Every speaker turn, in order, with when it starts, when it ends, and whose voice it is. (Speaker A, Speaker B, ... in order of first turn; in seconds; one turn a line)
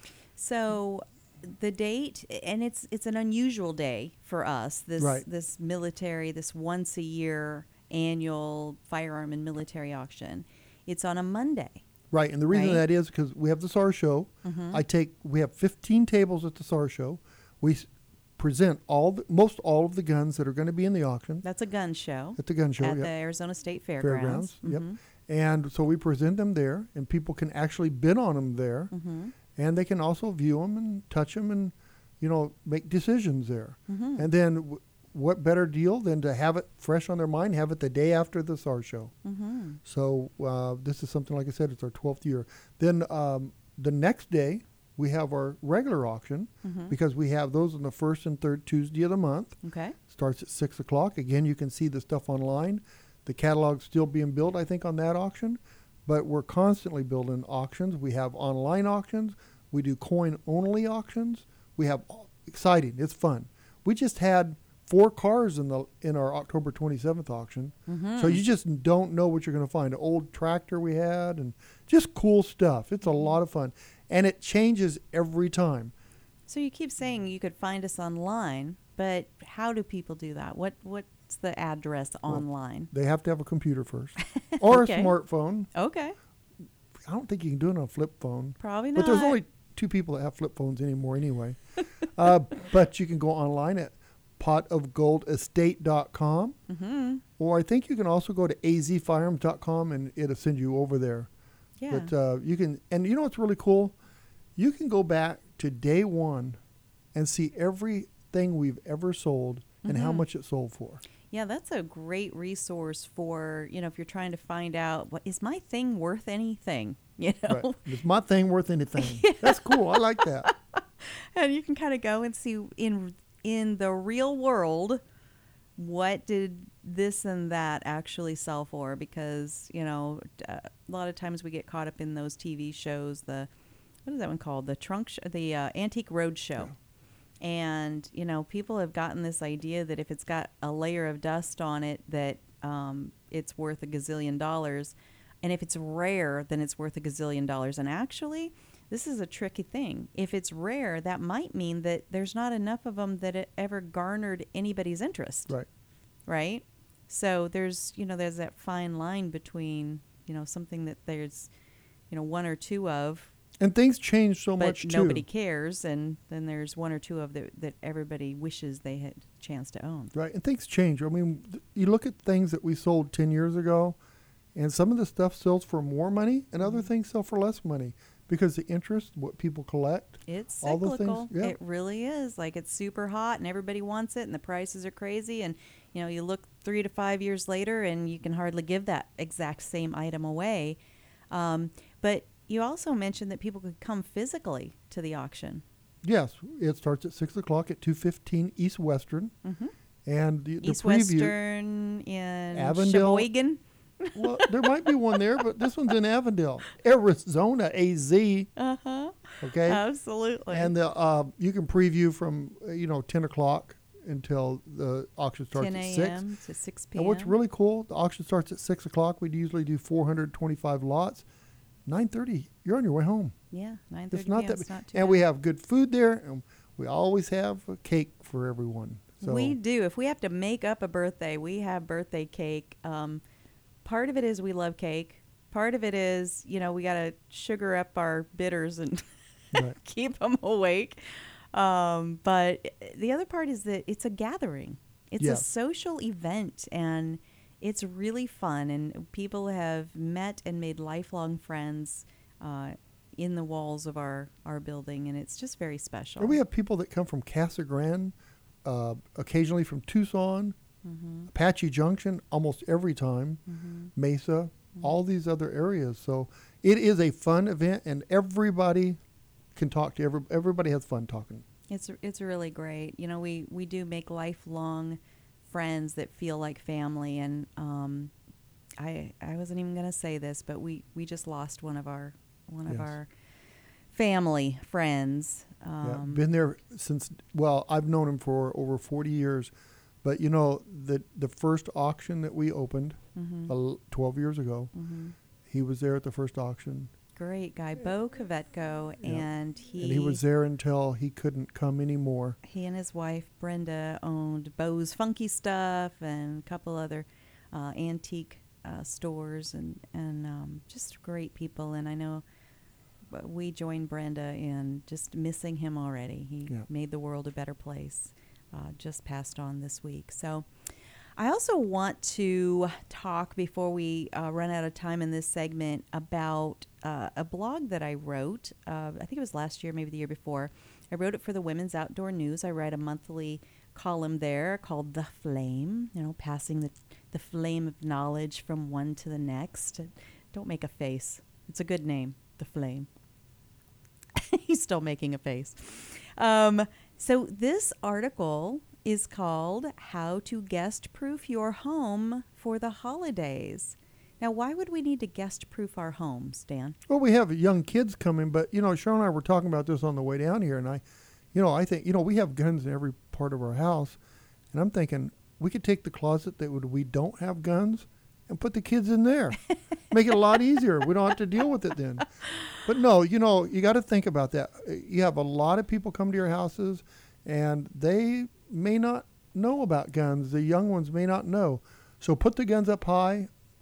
Speaker A: 0.3-11.8
Speaker B: 5.0-5.2
Speaker B: 12.1-21.4
Speaker A: 12.5-12.8
Speaker A: 14.4-14.8
Speaker A: 21.4-25.0
Speaker B: 22.4-23.1
Speaker B: 24.0-28.9
Speaker A: 28.9-29.3
Speaker B: 29.5-39.1
Speaker A: 33.9-34.3
Speaker A: 39.2-39.8
Speaker B: 39.8-75.9
Speaker A: 46.6-46.9
Speaker A: 49.6-50.0
Speaker A: 67.9-68.4
Speaker A: 73.0-73.3
Speaker A: 76.5-82.9
Speaker B: 82.3-85.7
Speaker A: 84.2-85.1
Speaker A: 85.7-86.1
Speaker B: 87.0-96.6
Speaker A: 88.6-89.4
Speaker A: 96.7-97.2
Speaker B: 97.4-101.3
Speaker A: 101.8-102.1
Speaker B: 101.9-104.0
Speaker B: 104.5-106.6
Speaker B: 107.1-111.0
Speaker A: 109.8-110.2
Speaker A: 111.3-117.8
Speaker B: 117.5-120.5
Speaker A: 119.0-119.8
Speaker A: 120.4-125.0
Speaker A: 125.8-133.5
Speaker A: 134.0-136.7
Speaker A: 137.4-155.5
Speaker A: 156.3-161.5
Speaker A: 162.1-163.3
Speaker B: 163.6-165.2
Speaker A: 164.6-170.1
Speaker B: 170.1-174.0
Speaker B: 174.5-181.5
Speaker A: 176.6-176.9
Speaker A: 180.2-190.8
Speaker A: 191.3-195.6
Speaker B: 196.0-199.3
Speaker A: 199.4-199.7
Speaker B: 200.0-201.3
Speaker A: 200.6-204.9
Speaker B: 202.5-203.3
Speaker B: 204.1-208.5
Speaker A: 208.6-210.7
Speaker B: 209.4-209.8
Speaker B: 210.5-216.2
Speaker A: 215.5-217.3
Speaker B: 216.9-221.2
Speaker B: 221.8-223.3
Speaker A: 223.5-225.2
Speaker B: 224.1-229.6
Speaker A: 229.2-233.2
Speaker A: 233.8-256.4
Speaker B: 245.2-245.4
Speaker B: 256.2-260.6
Speaker A: 260.8-261.3
Speaker B: 261.3-263.4
Speaker A: 263.5-263.9
Speaker B: 263.9-269.0
Speaker B: 269.5-271.4
Speaker A: 271.7-278.1
Speaker A: 278.8-283.1
Speaker B: 282.7-282.9
Speaker A: 283.9-286.2
Speaker B: 285.8-289.5
Speaker B: 290.0-294.7
Speaker A: 293.1-293.5
Speaker A: 294.7-295.1
Speaker B: 295.5-296.9
Speaker A: 297.1-300.2
Speaker B: 299.8-302.4
Speaker A: 302.4-312.2
Speaker A: 313.1-320.5
Speaker A: 321.2-342.9
Speaker A: 344.1-356.8
Speaker B: 356.9-364.0
Speaker B: 364.5-369.4
Speaker B: 369.9-383.3